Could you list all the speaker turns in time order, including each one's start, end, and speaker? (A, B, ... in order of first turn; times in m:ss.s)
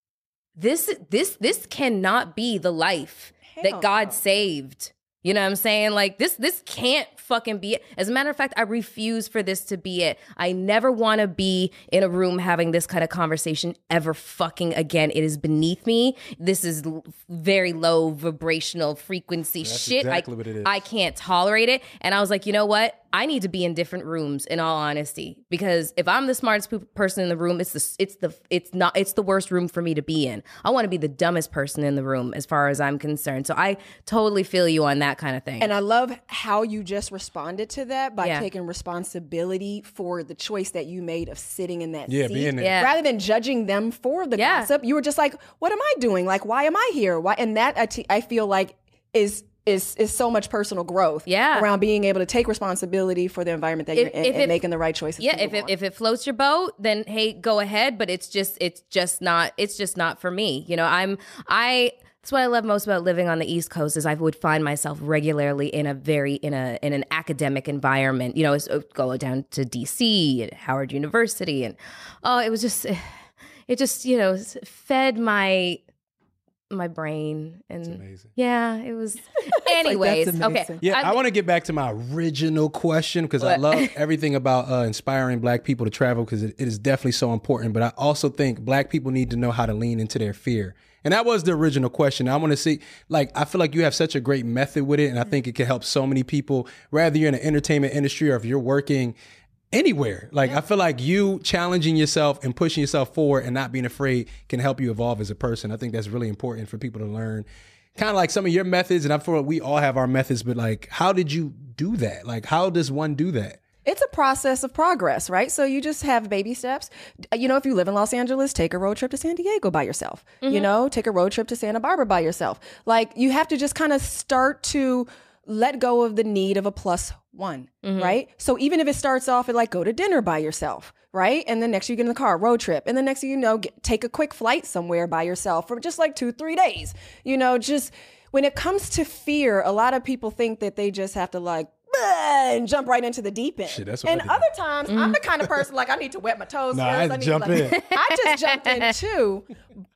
0:00.6-0:35.7 A
0:03.5-0:04.2 B
0:19.6-0:20.7 C
0:35.6-0:55.7 B
0:38.2-0:38.5 A
0:42.1-0:42.8 C
0:42.6-0:42.9 A
0:44.4-0:44.7 A
0:51.3-0:51.7 A
0:54.0-0:54.6 A
0:55.2-1:13.1 A
1:13.7-1:15.8 A
1:16.7-1:21.2 A
1:17.9-1:18.3 C
1:19.6-1:20.8 B
1:20.8-1:39.2 C
1:23.4-1:23.9 A
1:39.7-1:47.4 C
1:48.0-1:53.6 C
1:53.8-2:29.5 B
2:00.4-2:00.7 A
2:07.8-2:08.2 A
2:23.7-2:24.4 C
2:24.9-2:25.2 A
2:26.7-2:27.8 C
2:27.7-2:28.9 A